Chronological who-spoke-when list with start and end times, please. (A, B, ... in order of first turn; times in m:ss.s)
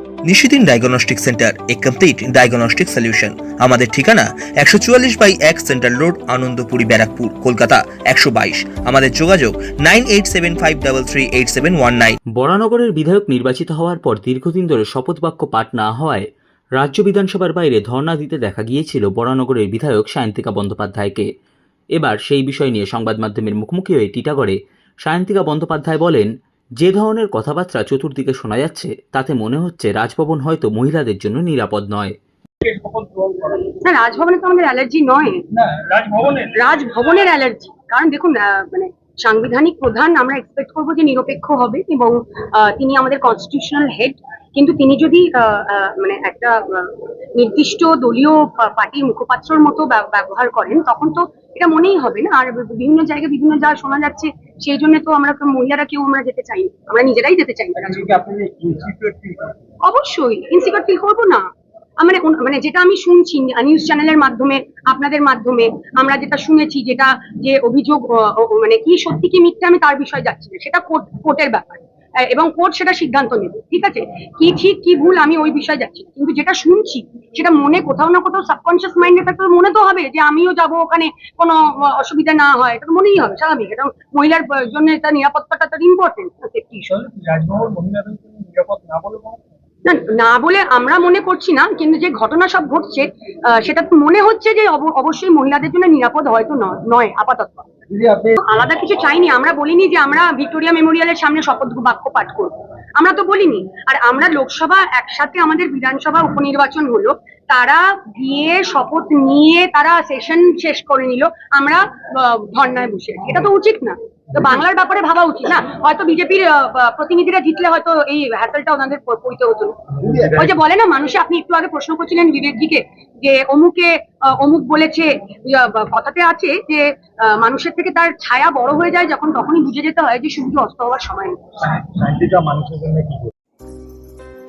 0:00.3-0:12.2 A
0:12.3-0:16.2 B
0:16.8-0:21.3 B
0:22.0-0:32.1 B
0:32.6-0:33.7 C
0:33.8-0:35.4 D
0:35.5-0:36.6 C
0:36.5-0:58.1 D
0:57.8-0:59.6 C
0:59.8-1:01.4 D
1:02.0-1:26.8 D
1:26.8-1:29.4 C
1:29.8-1:37.7 D
1:37.9-1:38.4 C
1:38.4-2:11.4 D
2:00.0-2:00.5 C
2:11.7-2:13.3 C